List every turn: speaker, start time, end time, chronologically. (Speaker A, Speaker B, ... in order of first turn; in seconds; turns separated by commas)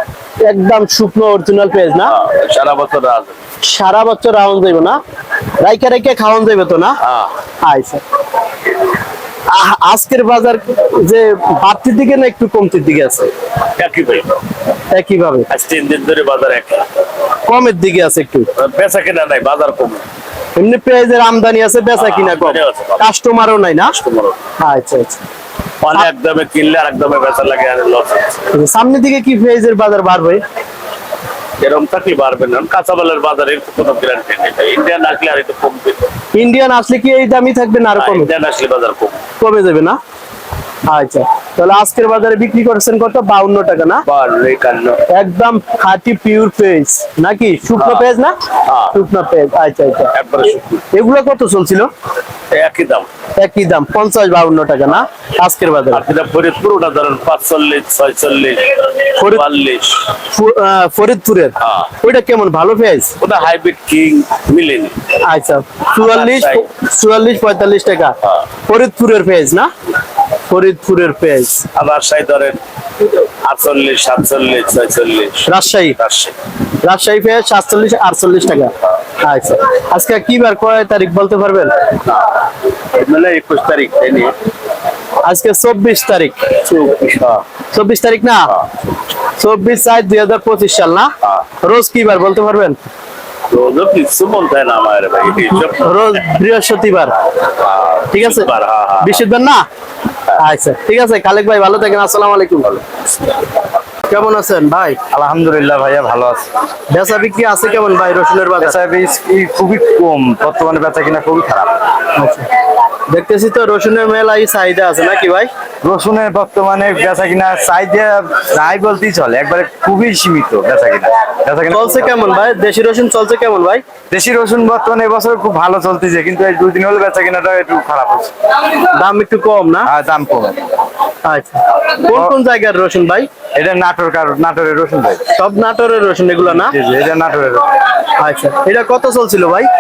Speaker A: 0.4-2.1, Speaker B: 2.1-3.4, Speaker A: 3.6-5.0, Speaker A: 5.6-7.0, Speaker B: 7.0-7.3, Speaker A: 7.6-8.0, Speaker A: 9.5-13.3, Speaker B: 13.8-14.4, Speaker A: 14.9-15.5, Speaker B: 15.5-16.9, Speaker A: 17.5-18.5, Speaker B: 18.6-20.1, Speaker A: 20.6-24.0, Speaker B: 22.0-23.1, Speaker B: 23.9-24.4, Speaker A: 24.6-25.2, Speaker B: 25.8-28.5, Speaker A: 28.5-30.4, Speaker B: 31.6-36.1, Speaker A: 36.3-38.3, Speaker B: 38.0-39.2, Speaker A: 39.4-40.0, Speaker A: 40.9-44.0, Speaker B: 44.1-45.0, Speaker A: 45.1-48.3, Speaker B: 47.8-48.0, Speaker B: 48.7-48.9, Speaker A: 48.9-50.1, Speaker B: 50.1-50.8, Speaker A: 50.9-51.9, Speaker B: 52.5-53.1, Speaker A: 53.4-56.1, Speaker B: 55.9-60.1, Speaker A: 59.2-59.4, Speaker A: 60.3-63.1, Speaker B: 61.6-61.9, Speaker B: 63.2-65.0, Speaker A: 65.2-68.2, Speaker B: 66.0-66.7, Speaker A: 68.7-69.7, Speaker A: 70.5-71.6, Speaker B: 71.7-76.3, Speaker A: 75.5-76.0, Speaker A: 76.8-78.7, Speaker A: 79.2-81.7, Speaker B: 82.9-84.3, Speaker A: 85.2-86.3, Speaker B: 86.7-87.4, Speaker A: 87.7-88.5, Speaker A: 89.4-91.1, Speaker A: 91.6-92.8, Speaker B: 93.5-95.9, Speaker A: 95.6-97.1, Speaker B: 97.6-99.2, Speaker A: 98.1-98.5, Speaker A: 99.0-99.7, Speaker A: 100.4-102.8, Speaker A: 104.1-105.0, Speaker C: 105.1-106.5, Speaker A: 106.9-108.8, Speaker C: 108.6-111.8, Speaker A: 112.2-112.5, Speaker A: 113.1-115.5, Speaker C: 115.8-122.1, Speaker A: 121.7-123.8, Speaker C: 124.1-128.3, Speaker A: 128.9-129.9, Speaker C: 129.8-130.6, Speaker A: 131.2-133.3, Speaker C: 133.6-135.2, Speaker A: 135.3-136.8, Speaker C: 136.5-137.7, Speaker A: 138.2-139.7